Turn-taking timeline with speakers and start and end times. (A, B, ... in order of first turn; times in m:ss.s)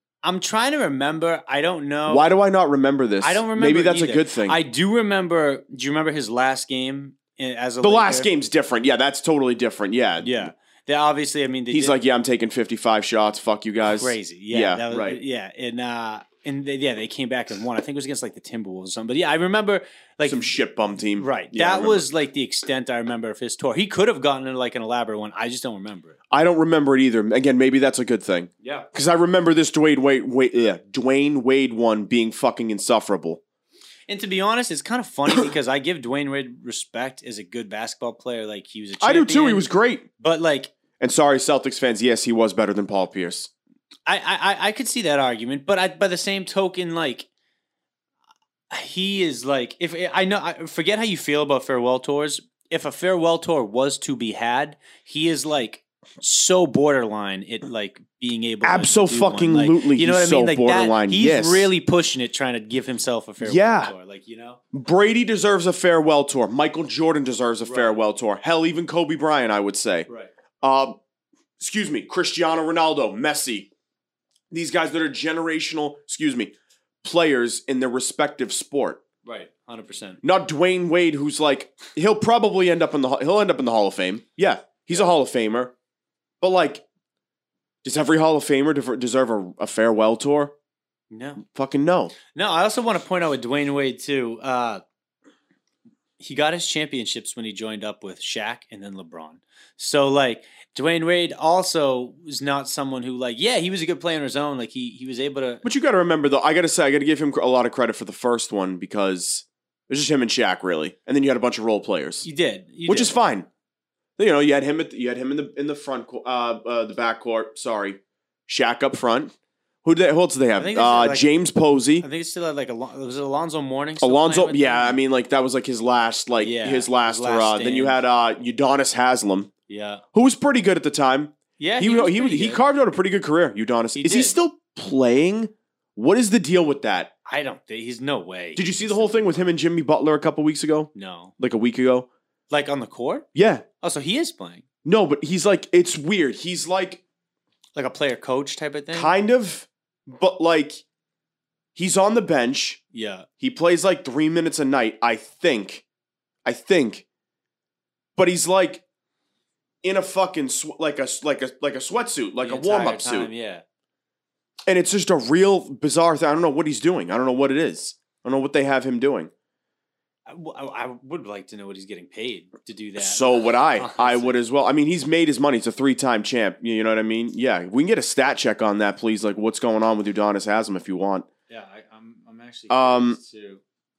0:00.2-0:02.3 A
0:02.1-0:04.6 B
0:03.2-0:08.3 A
0:07.8-0:10.5 B
0:10.2-0:12.0 A
0:11.7-0:15.2 B
0:13.8-0:20.5 A
0:20.2-0:22.0 B
0:21.2-0:26.2 A
0:26.3-0:33.4 B
0:28.6-0:28.9 A
0:34.1-0:39.7 A
0:39.0-0:40.1 B
0:40.2-0:40.7 A
0:41.0-0:43.5 B
0:44.0-0:47.3 A
0:48.7-1:04.6 A
0:58.6-1:01.7 B
1:03.4-1:03.9 B
1:04.7-1:10.1 B
1:07.6-1:08.0 A
1:10.6-1:11.0 B
1:11.6-1:13.7 B
1:14.5-1:19.0 B
1:19.2-1:20.2 A
1:20.2-1:25.7 B
1:26.4-1:26.8 B
1:27.8-1:30.5 B
1:31.1-1:31.4 A
1:31.4-1:32.1 B
1:32.3-1:34.8 A
1:36.2-1:45.6 A
1:45.6-1:52.2 B
1:52.2-1:53.2 A
1:52.9-1:53.5 B
1:54.2-2:02.0 B
2:00.6-2:01.3 A
2:02.0-2:05.0 A
2:04.0-2:09.5 B
2:06.4-2:08.0 A
2:09.7-2:10.0 A
2:10.1-2:17.1 B
2:11.6-2:12.6 A
2:13.9-2:14.4 A
2:17.2-2:19.5 A
2:18.6-2:22.1 B
2:20.9-2:21.3 A
2:22.5-2:23.3 A
2:23.3-2:23.6 B
2:23.8-2:24.6 A
2:24.8-2:27.0 B
2:27.8-2:29.1 A
2:28.9-2:30.8 B
2:31.8-2:32.8 B
2:32.9-2:33.3 A
2:33.4-2:35.8 B
2:36.4-2:37.0 B
2:38.2-2:38.8 B
2:39.8-2:43.3 B
2:42.4-2:43.6 A
2:44.7-2:49.3 B
2:50.3-2:54.4 A
2:53.0-3:01.3 B
3:01.5-3:03.6 A
3:02.7-3:03.2 B